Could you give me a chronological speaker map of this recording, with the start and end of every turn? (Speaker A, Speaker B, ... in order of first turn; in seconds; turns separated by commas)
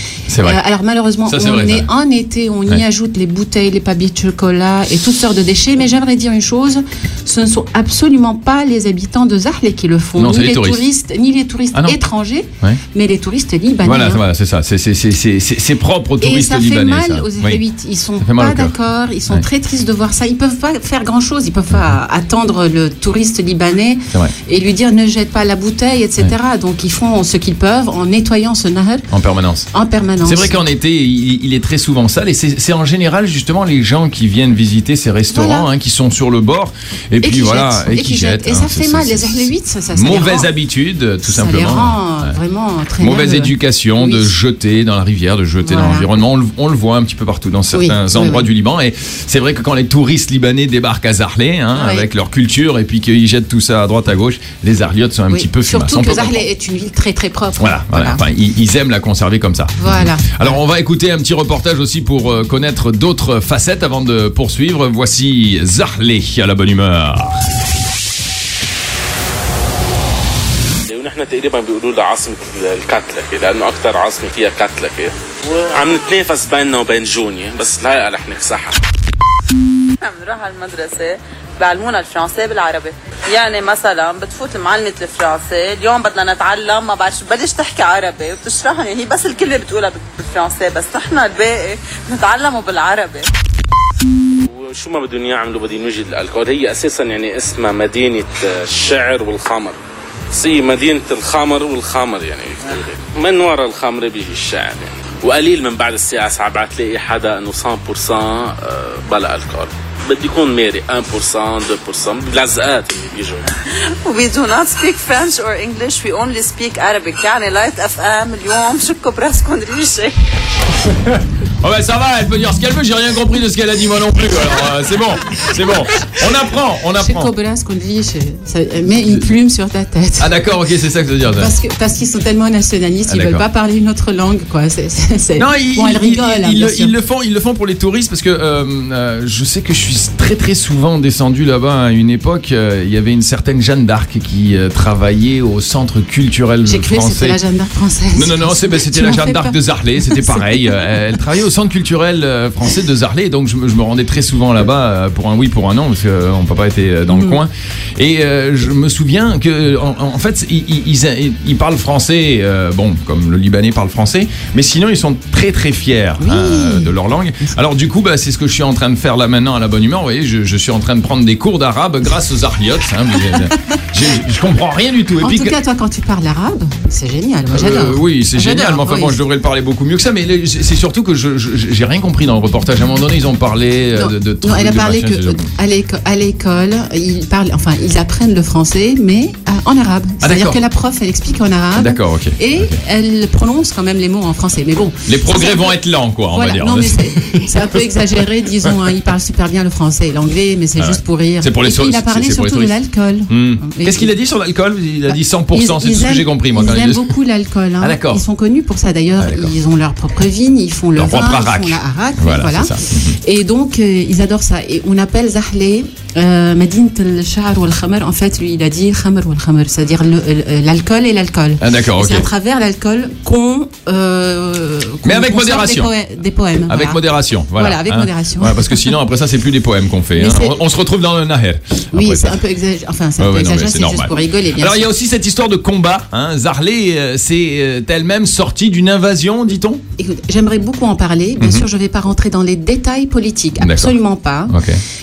Speaker A: 0.3-0.6, Speaker B: 0.4-14.2, Speaker A: 1.3-1.9, Speaker A: 10.2-10.8, Speaker A: 13.8-17.6, Speaker B: 16.2-29.1, Speaker A: 18.2-18.7, Speaker A: 21.7-22.0, Speaker A: 29.1-29.7, Speaker B: 29.7-30.6, Speaker A: 30.2-42.4, Speaker B: 35.3-35.7, Speaker B: 37.2-40.5, Speaker B: 41.2-44.3, Speaker A: 43.0-56.5, Speaker B: 45.6-46.1, Speaker B: 47.7-48.5, Speaker B: 51.8-52.1, Speaker B: 55.3-58.2, Speaker A: 57.6-67.4, Speaker B: 59.8-60.6, Speaker C: 70.9-78.8, Speaker D: 80.0-93.3, Speaker C: 94.4-99.8, Speaker C: 100.3-113.5, Speaker D: 113.9-120.1, Speaker A: 120.8-127.3, Speaker B: 127.0-130.3, Speaker A: 128.9-129.3, Speaker A: 130.2-131.5, Speaker B: 131.4-136.9, Speaker A: 133.1-133.4, Speaker A: 135.4-147.4, Speaker B: 146.6-150.5, Speaker A: 148.1-175.6, Speaker B: 157.1-157.4, Speaker B: 166.2-166.9, Speaker B: 175.2-179.2, Speaker A: 177.5-185.5, Speaker B: 183.9-195.8, Speaker A: 190.2-190.6, Speaker A: 191.8-192.8, Speaker A: 195.0-199.0, Speaker B: 196.3-204.1, Speaker A: 200.8-202.8, Speaker A: 203.3-207.2, Speaker B: 205.5-229.0, Speaker A: 207.8-208.2, Speaker A: 209.2-209.5, Speaker A: 210.9-213.2, Speaker A: 221.6-222.3, Speaker A: 225.0-225.9, Speaker A: 226.7-232.4, Speaker B: 230.1-230.6, Speaker B: 231.9-234.8, Speaker A: 233.2-239.8, Speaker B: 240.0-244.6, Speaker A: 241.4-241.7, Speaker A: 243.6-243.9, Speaker A: 244.5-244.8